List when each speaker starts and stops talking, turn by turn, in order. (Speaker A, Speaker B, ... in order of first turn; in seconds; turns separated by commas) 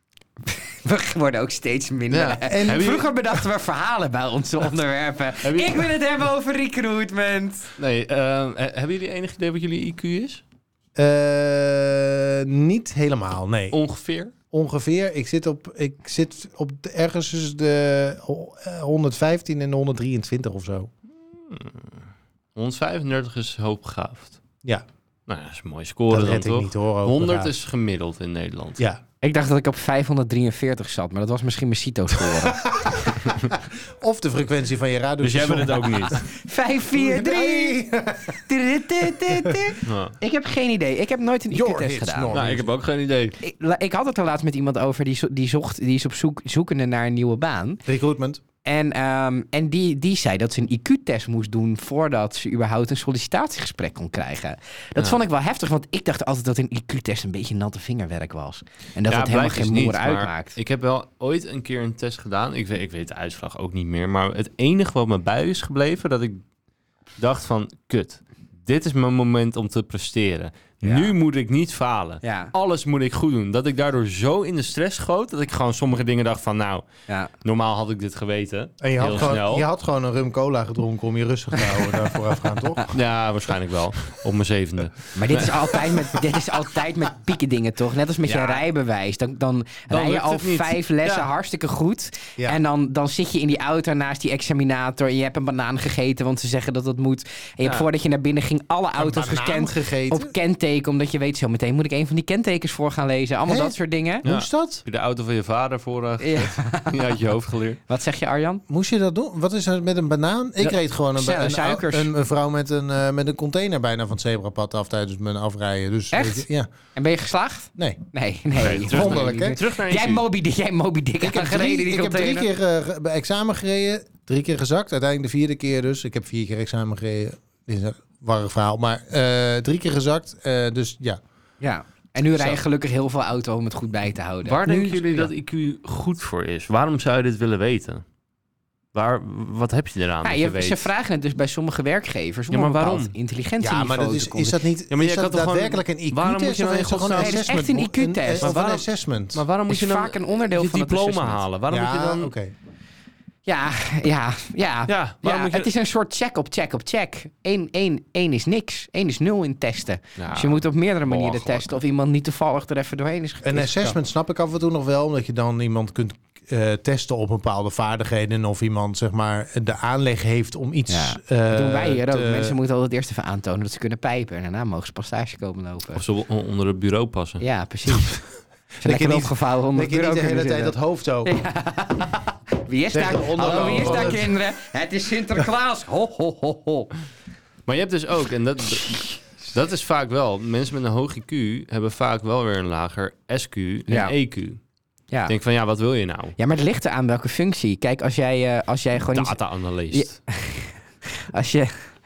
Speaker A: 0.5-7.7, Speaker B: 2.1-3.1, Speaker C: 2.5-2.9, Speaker B: 5.4-5.8, Speaker B: 7.8-10.4, Speaker C: 10.9-13.8, Speaker B: 13.7-14.3, Speaker C: 14.5-20.9, Speaker B: 21.4-22.0, Speaker B: 22.5-24.4, Speaker B: 25.3-28.8, Speaker C: 26.1-27.5, Speaker A: 29.2-32.9, Speaker C: 32.4-36.2, Speaker B: 35.2-36.2, Speaker A: 36.3-37.8, Speaker C: 36.9-38.4, Speaker A: 38.5-42.3, Speaker C: 39.1-39.6, Speaker B: 39.8-40.1, Speaker C: 41.5-42.7, Speaker B: 42.3-43.4, Speaker A: 43.4-47.8, Speaker C: 47.9-48.4, Speaker A: 48.6-60.6, Speaker B: 59.1-66.4, Speaker B: 67.2-76.8, Speaker A: 70.8-71.1, Speaker A: 72.2-72.5, Speaker B: 77.4-79.6, Speaker C: 78.8-82.9, Speaker B: 82.9-85.8, Speaker A: 85.1-104.2, Speaker B: 89.9-91.3, Speaker C: 99.0-100.3, Speaker C: 103.5-104.8, Speaker B: 104.2-107.8, Speaker A: 106.2-107.2, Speaker A: 107.9-108.6, Speaker C: 108.7-116.7, Speaker A: 110.6-112.1, Speaker A: 116.1-122.5, Speaker B: 118.5-120.2, Speaker C: 118.8-119.6, Speaker C: 121.2-131.2, Speaker A: 131.6-135.3, Speaker B: 134.4-138.0, Speaker B: 138.9-140.9, Speaker A: 140.2-144.6, Speaker B: 142.5-143.1, Speaker C: 143.6-149.4, Speaker B: 144.9-147.4, Speaker A: 147.2-148.8, Speaker B: 149.3-152.3, Speaker A: 149.7-151.4, Speaker C: 151.7-152.5, Speaker A: 153.4-163.9, Speaker B: 154.9-155.7, Speaker B: 160.2-161.7, Speaker C: 163.4-172.6, Speaker A: 170.9-176.0, Speaker B: 175.9-177.4, Speaker A: 177.4-178.2, Speaker A: 178.8-186.9, Speaker C: 178.8-181.3, Speaker C: 182.9-184.3, Speaker B: 183.4-184.2, Speaker B: 187.7-194.6, Speaker A: 193.9-194.1, Speaker B: 195.3-196.3, Speaker A: 196.4-199.4, Speaker B: 199.1-200.2, Speaker A: 199.9-200.7, Speaker A: 201.3-201.8